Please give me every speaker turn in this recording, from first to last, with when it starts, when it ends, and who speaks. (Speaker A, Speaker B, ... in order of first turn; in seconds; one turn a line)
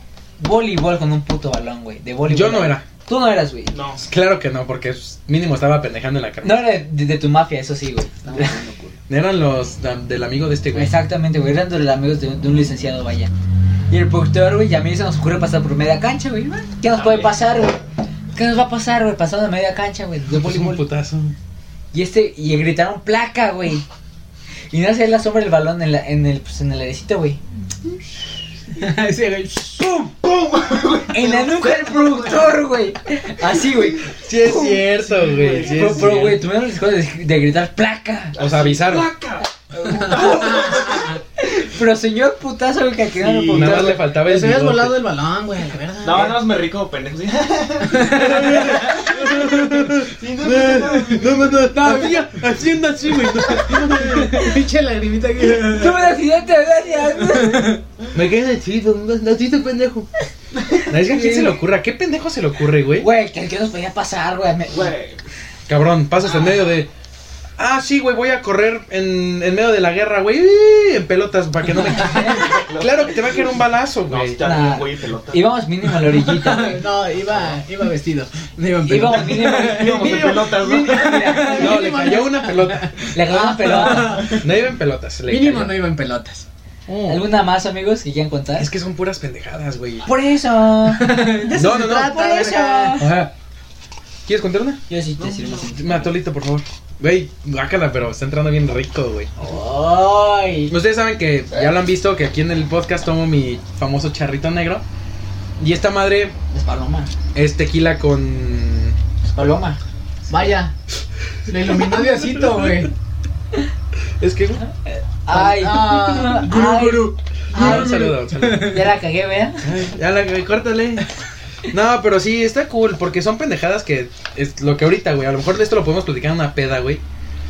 Speaker A: 0.4-3.7
Speaker B: 2.3-2.9
Speaker C: 3.7-4.0
Speaker B: 4.0-6.8
Speaker A: 6.4-8.6
Speaker D: 8.3-8.9
Speaker B: 9.1-11.0
Speaker A: 10.7-13.3
Speaker A: 13.9-17.8
Speaker C: 16.9-17.3
Speaker A: 18.3-20.9
Speaker B: 20.3-21.4
Speaker A: 21.9-23.9
Speaker A: 24.7-27.4
Speaker D: 28.8-29.9
Speaker C: 30.2-32.5
Speaker A: 31.1-34.1
Speaker B: 34.2-36.4
Speaker C: 35.1-35.9
Speaker A: 35.6-38.4
Speaker B: 38.4-39.1
Speaker C: 38.4-40.9
Speaker A: 39.8-44.0
Speaker C: 43.2-43.8
Speaker B: 43.5-45.0
Speaker D: 43.8-46.5
Speaker C: 46.0-49.0
Speaker D: 47.9-49.2
Speaker B: 48.2-54.5
Speaker C: 50.0-51.5
Speaker D: 51.7-52.3
Speaker D: 53.5-56.2
Speaker A: 55.7-57.8
Speaker D: 57.2-57.8
Speaker B: 58.1-60.1
Speaker B: 60.9-63.1
Speaker A: 61.1-61.5
Speaker A: 63.0-64.9
Speaker C: 64.7-65.2
Speaker B: 65.7-66.9
Speaker B: 67.6-74.4
Speaker A: 71.8-72.4
Speaker C: 72.3-73.5
Speaker C: 74.1-75.5
Speaker A: 74.4-76.8
Speaker D: 76.1-84.5
Speaker A: 78.8-81.9
Speaker C: 79.3-81.4
Speaker B: 81.5-83.0
Speaker A: 83.1-84.3
Speaker B: 83.9-85.8
Speaker D: 85.3-86.5
Speaker B: 86.9-87.2
Speaker A: 87.0-88.7
Speaker B: 88.6-90.1
Speaker A: 90.0-91.4
Speaker D: 90.9-93.0
Speaker B: 91.5-93.3
Speaker A: 92.2-93.1
Speaker B: 94.3-94.8
Speaker A: 94.9-96.1
Speaker C: 95.2-95.7
Speaker B: 95.7-99.3
Speaker A: 99.4-100.7
Speaker B: 100.7-104.8
Speaker B: 105.6-106.3
Speaker A: 106.5-107.1
Speaker B: 107.3-109.0
Speaker A: 109.2-109.8
Speaker D: 110.3-110.7
Speaker D: 111.5-112.9
Speaker B: 114.2-114.6
Speaker A: 114.7-119.7
Speaker D: 115.3-118.7
Speaker B: 117.5-118.8
Speaker B: 119.6-121.1
Speaker B: 121.7-127.0